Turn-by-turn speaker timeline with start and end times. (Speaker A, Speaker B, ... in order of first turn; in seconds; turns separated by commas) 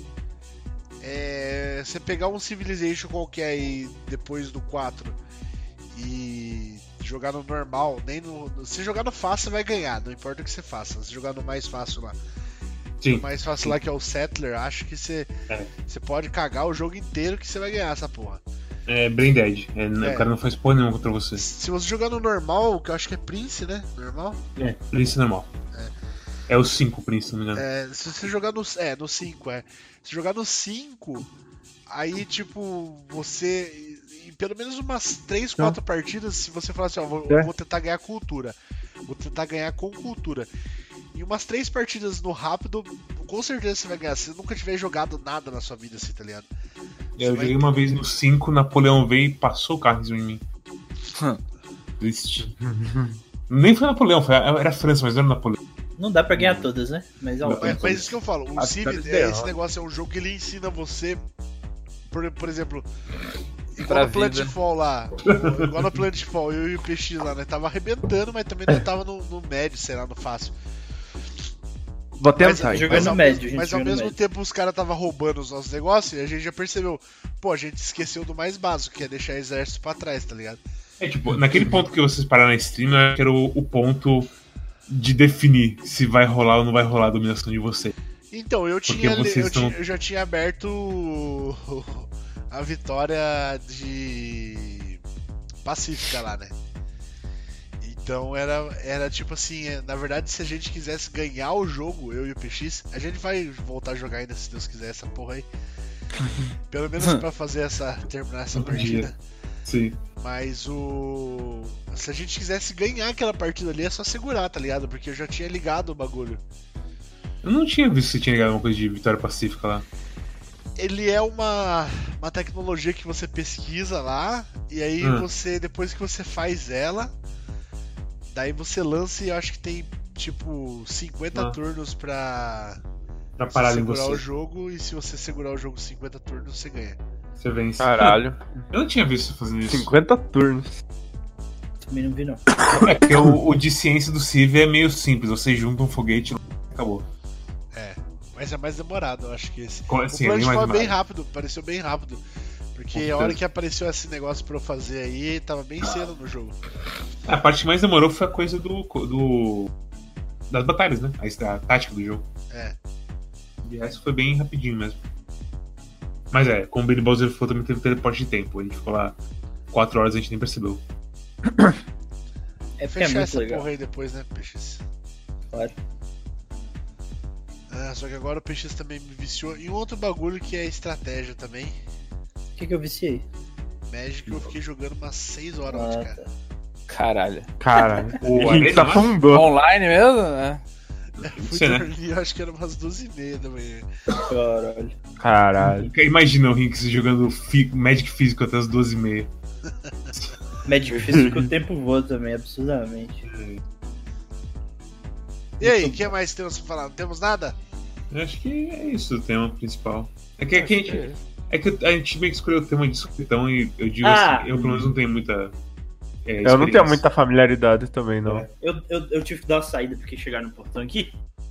Speaker A: 1.0-5.2, Speaker A: 5.9-12.2, Speaker B: 13.0-13.8, Speaker A: 13.1-15.3, Speaker A: 15.8-18.4, Speaker B: 18.9-21.4, Speaker A: 20.0-20.3, Speaker A: 21.4-24.4, Speaker B: 24.6-25.5, Speaker B: 26.5-27.6, Speaker A: 27.5-31.3, Speaker A: 31.9-38.5, Speaker A: 39.1-40.5, Speaker A: 41.1-46.5, Speaker A: 47.2-47.6, Speaker B: 47.2-50.4, Speaker C: 51.1-51.4, Speaker B: 52.0-52.5, Speaker D: 52.6-53.1, Speaker B: 53.5-55.6, Speaker E: 56.0-58.1, Speaker B: 56.4-56.6, Speaker B: 57.4-58.0, Speaker A: 57.6-61.2, Speaker D: 58.6-59.5, Speaker A: 62.1-62.9, Speaker A: 63.7-70.5, Speaker C: 63.8-64.5, Speaker B: 65.3-65.8, Speaker D: 72.2-73.2, Speaker A: 72.3-80.6, Speaker E: 72.6-74.1, Speaker B: 81.0-84.3, Speaker B: 84.9-87.9, Speaker A: 88.3-95.0, Speaker B: 88.9-89.8, Speaker A: 95.6-96.5, Speaker A: 97.8-105.5, Speaker A: 106.7-109.2, Speaker B: 108.5-109.1, Speaker B: 109.7-110.0, Speaker A: 110.2-116.4, Speaker B: 117.4-119.8, Speaker A: 120.8-127.1, Speaker B: 125.0-125.3, Speaker A: 128.3-132.8, Speaker B: 133.4-134.2, Speaker A: 133.5-137.0, Speaker B: 137.4-139.9, Speaker D: 137.8-138.7, Speaker D: 139.7-140.8, Speaker E: 141.8-142.4, Speaker D: 142.6-143.3, Speaker B: 142.7-147.0, Speaker A: 147.7-152.2, Speaker B: 149.9-150.9, Speaker A: 152.7-156.6, Speaker B: 152.9-153.4, Speaker B: 157.3-159.7, Speaker B: 160.5-162.2, Speaker A: 162.5-162.8, Speaker B: 163.6-165.0, Speaker B: 166.3-169.2, Speaker B: 169.7-170.8, Speaker E: 172.8-173.7, Speaker A: 172.9-174.8, Speaker A: 177.7-181.8, Speaker E: 182.6-183.3, Speaker A: 183.9-186.2, Speaker E: 185.7-186.3, Speaker C: 186.9-187.5, Speaker D: 187.6-189.5, Speaker E: 187.8-188.1, Speaker B: 188.2-189.2, Speaker C: 189.3-190.6, Speaker B: 191.2-191.8, Speaker A: 191.2-193.9, Speaker E: 194.2-194.9, Speaker D: 195.2-195.9, Speaker B: 195.6-199.3, Speaker E: 200.6-203.2, Speaker D: 201.0-201.5, Speaker B: 203.2-203.6, Speaker A: 205.6-207.6, Speaker E: 205.6-206.1, Speaker B: 208.1-215.5, Speaker D: 210.6-211.2, Speaker E: 214.0-214.5, Speaker D: 214.6-214.9, Speaker B: 216.2-217.0, Speaker D: 216.4-218.5, Speaker E: 218.5-221.2